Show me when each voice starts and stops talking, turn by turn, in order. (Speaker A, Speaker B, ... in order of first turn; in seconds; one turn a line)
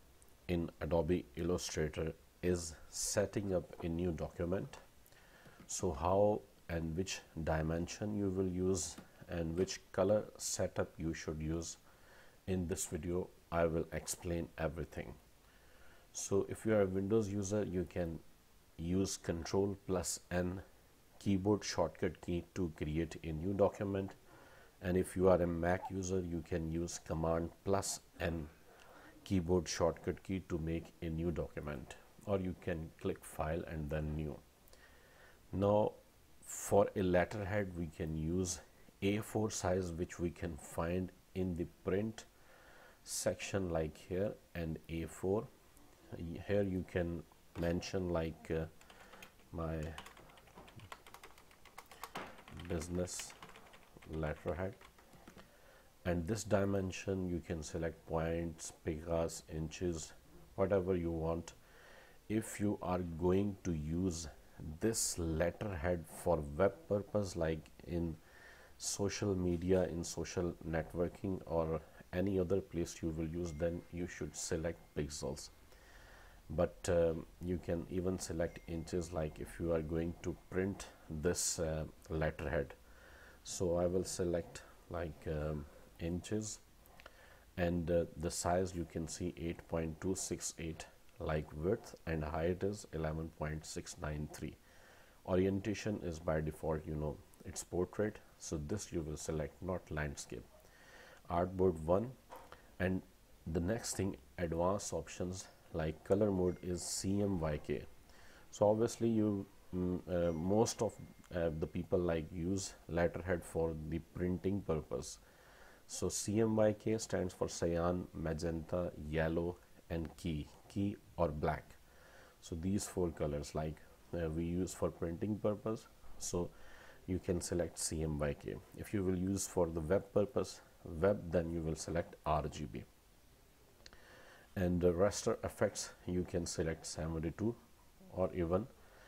Speaker A: 0.5-4.8
Speaker A: 5.7-11.8
Speaker A: 12.5-15.2
Speaker A: 16.1-18.2
Speaker A: 18.8-20.6
Speaker A: 21.2-24.1
Speaker A: 24.8-28.5
Speaker A: 29.2-34.4
Speaker A: 35.5-42.3
Speaker A: 43.0-45.5
Speaker A: 46.1-48.7
Speaker A: 49.5-50.0
Speaker A: 52.5-53.4
Speaker A: 54.1-54.8
Speaker A: 56.0-61.5
Speaker A: 62.3-68.2
Speaker A: 68.8-75.5
Speaker A: 76.5-82.8
Speaker A: 83.4-86.6
Speaker A: 87.6-94.6
Speaker A: 95.2-100.5
Speaker A: 101.3-102.2
Speaker A: 102.8-107.9
Speaker A: 108.5-115.2
Speaker A: 115.9-121.8
Speaker A: 122.4-126.5
Speaker A: 127.1-132.9
Speaker A: 134.6-137.6
Speaker A: 138.1-138.7